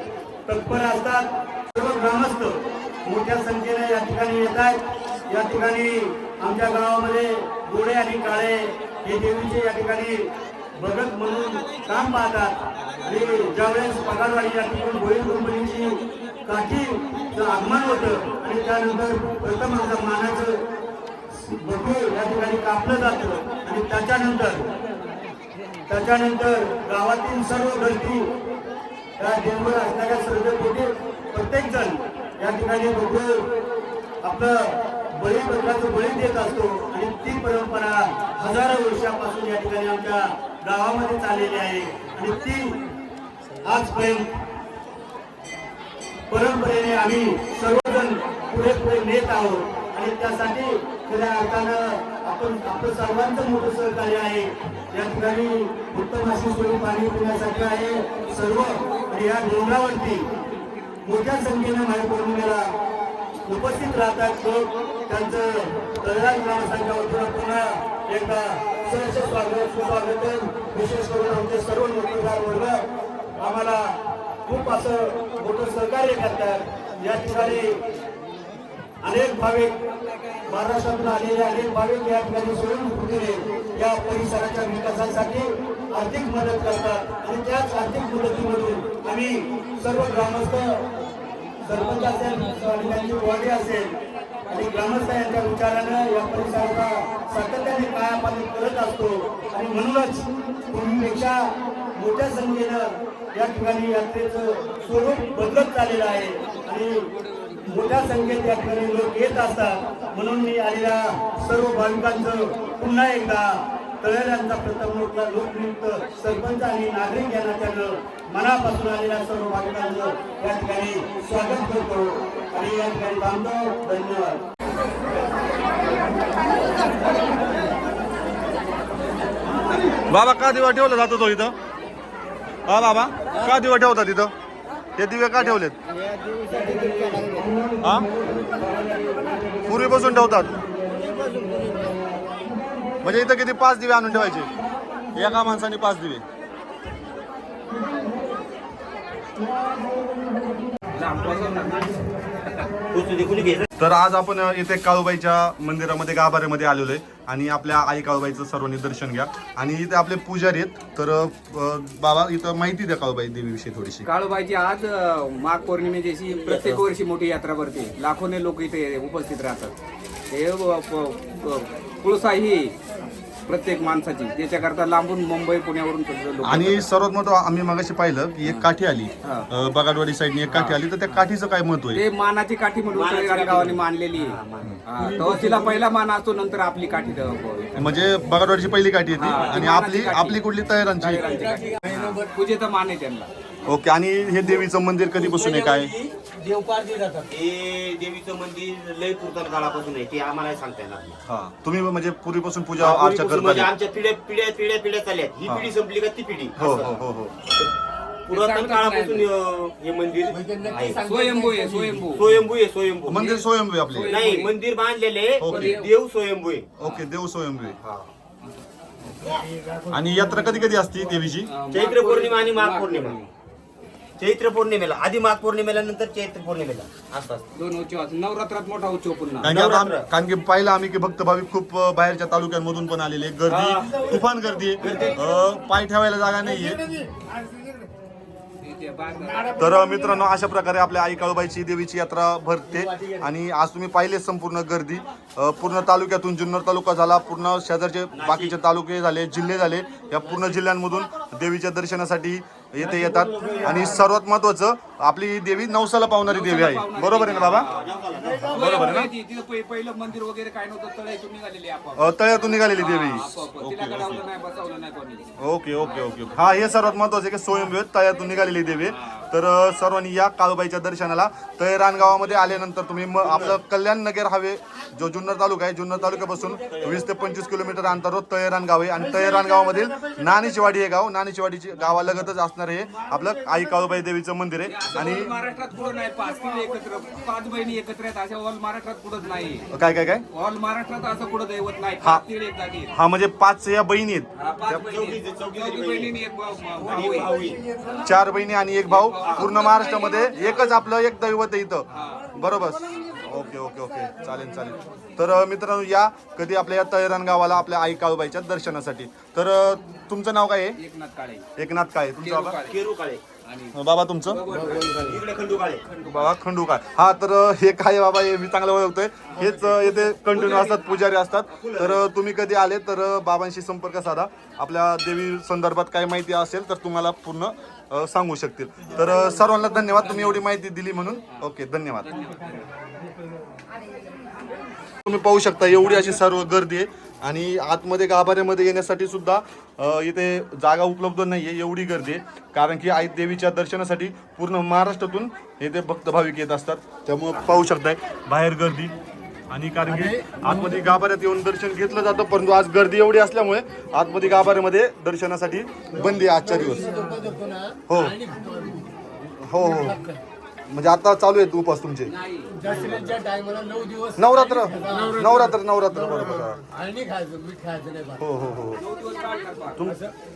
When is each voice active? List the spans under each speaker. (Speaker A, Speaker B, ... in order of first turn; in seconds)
Speaker A: 0.5-2.5, 3.0-4.8, 5.3-10.1, 10.8-12.5, 13.1-20.5, 21.4-24.6, 25.9-28.2, 29.2-33.4, 34.2-42.7, 43.7-44.2, 46.3-60.2, 61.0-62.6, 63.5-72.8, 73.4-73.8, 74.5-77.7, 79.0-79.7, 80.5-90.7, 91.7-93.9, 94.5-101.4, 102.0-106.9, 107.7-113.4, 114.0-124.4
Speaker B: 130.1-131.5, 132.7-134.3, 134.9-135.8, 137.8-138.1, 139.6-140.5, 143.0-144.5, 145.1-146.2, 153.8-164.1, 176.5-182.0, 187.8-191.4, 193.7-195.9, 201.3-203.7, 206.6-207.3, 213.1-214.2, 215.4-215.9, 216.8-217.8, 219.9-221.6, 229.4-236.8, 239.6-257.7, 258.5-259.1, 262.0-264.2, 265.4-285.3, 289.7-290.2, 292.9-294.8, 298.0-310.8, 311.6-312.6, 313.7-314.4, 316.0-332.1, 335.1-348.9, 349.5-356.9, 357.9-358.2, 359.4-360.0, 360.7-362.1, 364.2-366.6, 368.2-368.8
Speaker C: 150.9-152.6, 164.0-169.7, 170.3-172.7, 173.5-176.9, 179.2-179.5, 180.5-181.2, 181.9-188.1, 189.2-190.4, 191.0-193.3, 208.3-209.3, 210.8-212.3, 213.1-214.6, 215.4-215.9, 216.8-217.1, 221.4-223.3, 227.5-229.5, 233.5-233.8, 238.6-239.6, 256.3-265.3, 265.8-266.1, 268.8-269.2, 284.6-289.7, 290.3-292.9, 294.4-298.2, 298.8-300.8, 301.9-302.3, 310.8-311.4, 312.1-312.9, 313.4-316.3, 320.3-321.1, 330.0-330.4, 332.0-332.7, 362.1-362.6, 368.8-369.9
Speaker D: 152.9-153.6, 182.9-184.8, 197.3-201.2, 202.8-207.1, 208.3-211.0, 212.1-213.2, 214.1-216.7, 217.7-218.1, 221.7-223.2, 224.2-227.4, 229.4-230.1, 233.6-234.2, 234.8-235.1, 248.1-248.6, 257.6-258.5, 294.7-296.1, 296.8-297.6, 299.2-299.5, 312.6-313.2, 315.0-315.8, 321.5-322.1
Speaker E: 185.2-185.6, 191.3-192.2, 195.2-197.3, 210.3-212.0, 219.6-219.9, 236.6-237.8, 242.7-243.2, 356.2-358.9, 359.8-360.2, 362.5-365.5, 366.7-368.2